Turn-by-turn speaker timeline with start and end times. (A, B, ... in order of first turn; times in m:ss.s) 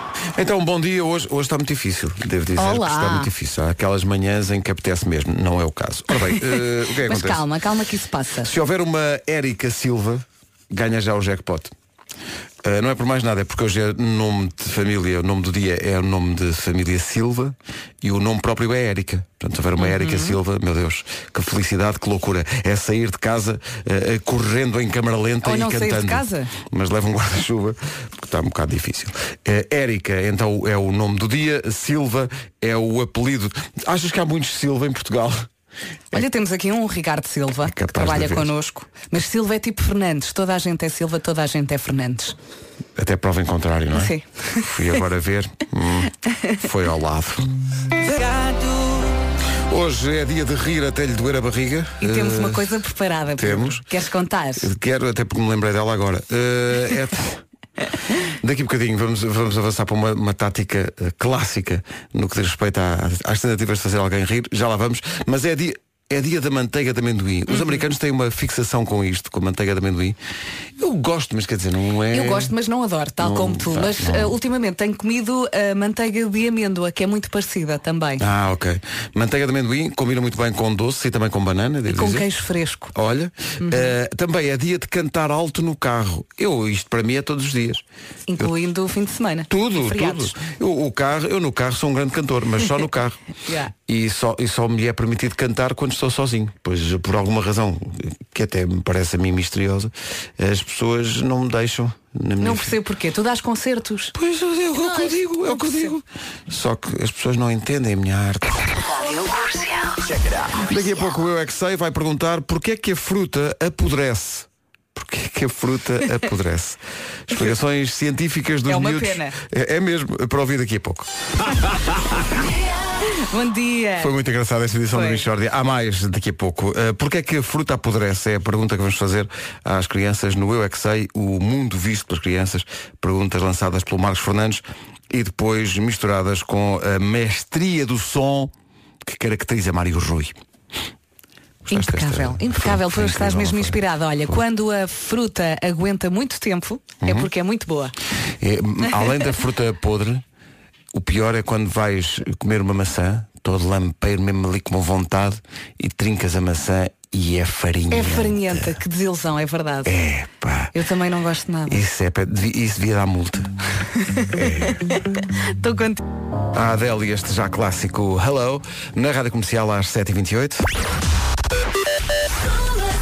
0:00.4-0:07.4 A
0:02.6-0:03.3 B
0:07.0-0:08.5 B
0:08.4-0:11.7 A
0:12.6-0:35.5 A
0:19.8-0:20.4 B
0:25.4-0:26.5 B
0:36.1-0:42.3 B
0:37.6-0:38.5 A
0:43.0-0:47.5 A
0:43.9-0:44.6 B
0:49.7-0:52.7 A
0:52.0-0:54.7 B
0:53.4-0:53.8 A
0:54.6-0:57.4 A
0:58.2-1:10.2 A
1:07.5-1:07.8 B
1:10.8-1:12.5 A
1:12.1-1:18.2 B
1:13.2-1:14.4 A
1:18.2-1:22.3 A
1:21.9-1:22.9 B
1:22.9-1:27.8 A
1:23.6-1:23.9 B
1:28.3-1:30.3 B
1:29.5-1:33.2 A
1:33.4-1:33.7 B
1:33.9-1:42.8 A
1:42.4-1:44.1 B
1:44.1-1:48.8 A
1:45.5-1:45.9 B
1:50.6-2:01.1 A
1:58.7-1:59.3 B
2:03.1-2:04.1 B
2:04.0-2:18.5 A
2:04.9-2:05.2 B
2:19.0-2:20.3 A
2:21.7-2:27.9 B
2:21.7-2:24.4 A
2:27.0-2:27.3 A
2:28.4-2:30.2 A
2:30.9-2:38.8 A
2:37.9-2:39.9 B
2:39.8-2:40.7 A
2:40.7-2:41.8 B
2:41.7-2:43.5 A
2:44.2-2:44.7 B
2:44.3-2:44.8 A
2:45.6-2:46.0 B
2:46.5-2:50.6 A